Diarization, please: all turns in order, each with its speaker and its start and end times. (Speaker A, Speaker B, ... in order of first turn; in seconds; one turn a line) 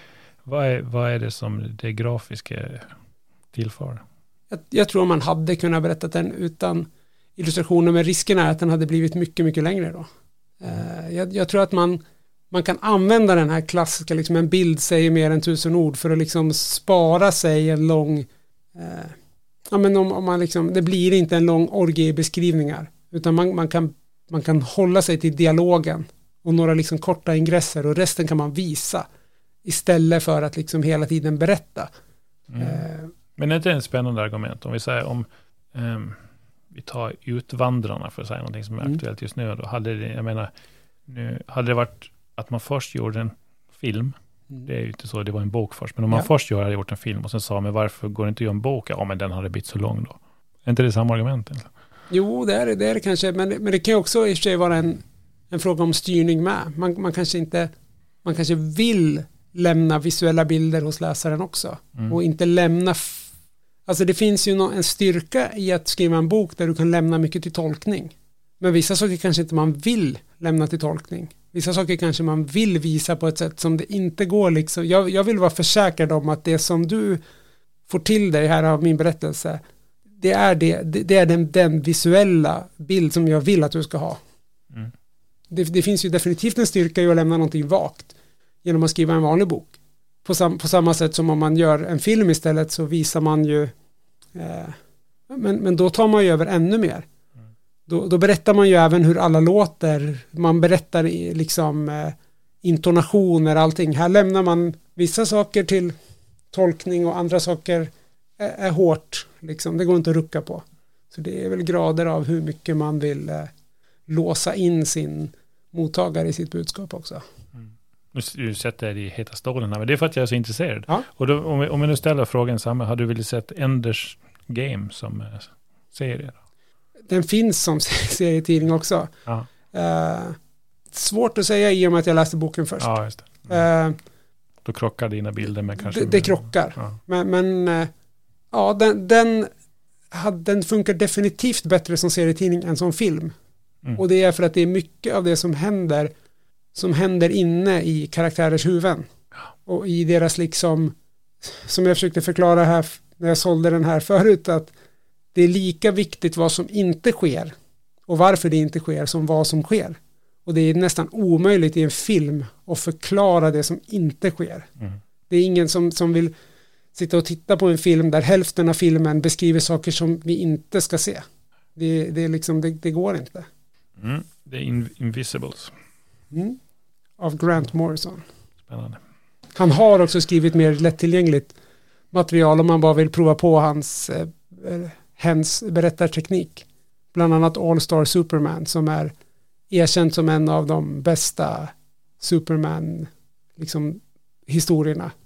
Speaker A: 0.5-2.9
Speaker A: 3.5-4.0
Speaker B: 4.5-10.1
Speaker B: 10.6-12.0
Speaker B: 12.5-19.1
Speaker B: 19.7-29.1
Speaker B: 29.6-31.9
Speaker A: 32.5-32.9
Speaker B: 32.6-33.1
Speaker A: 33.4-36.2
Speaker A: 36.7-40.5
Speaker A: 41.1-51.7
Speaker B: 52.1-57.7
Speaker B: 58.2-63.3
Speaker B: 63.9-77.2
Speaker B: 77.9-79.6
Speaker B: 80.2-84.2
Speaker B: 85.5-89.7
Speaker B: 90.2-93.7
Speaker B: 94.3-94.8
Speaker B: 95.3-97.1
Speaker B: 97.9-105.9
Speaker B: 106.5-113.5
Speaker B: 114.1-117.2
Speaker A: 117.6-126.4
Speaker B: 127.1-129.1
Speaker B: 129.7-130.4
Speaker B: 130.9-132.9
Speaker A: 132.8-133.6
Speaker B: 133.4-134.0
Speaker A: 134.7-137.0
Speaker B: 135.8-137.9
Speaker B: 138.5-139.5
Speaker B: 140.1-143.3
Speaker B: 144.0-146.1
Speaker B: 146.8-149.1
Speaker B: 149.7-154.7
Speaker B: 155.3-157.5
Speaker B: 158.1-164.7
Speaker B: 165.3-166.3
Speaker B: 166.9-171.2
Speaker B: 171.8-173.5
Speaker A: 174.0-175.7
Speaker B: 176.3-176.6
Speaker B: 177.2-178.2
Speaker A: 178.7-179.0
Speaker B: 179.6-181.5
Speaker B: 182.1-189.1
Speaker B: 189.7-195.1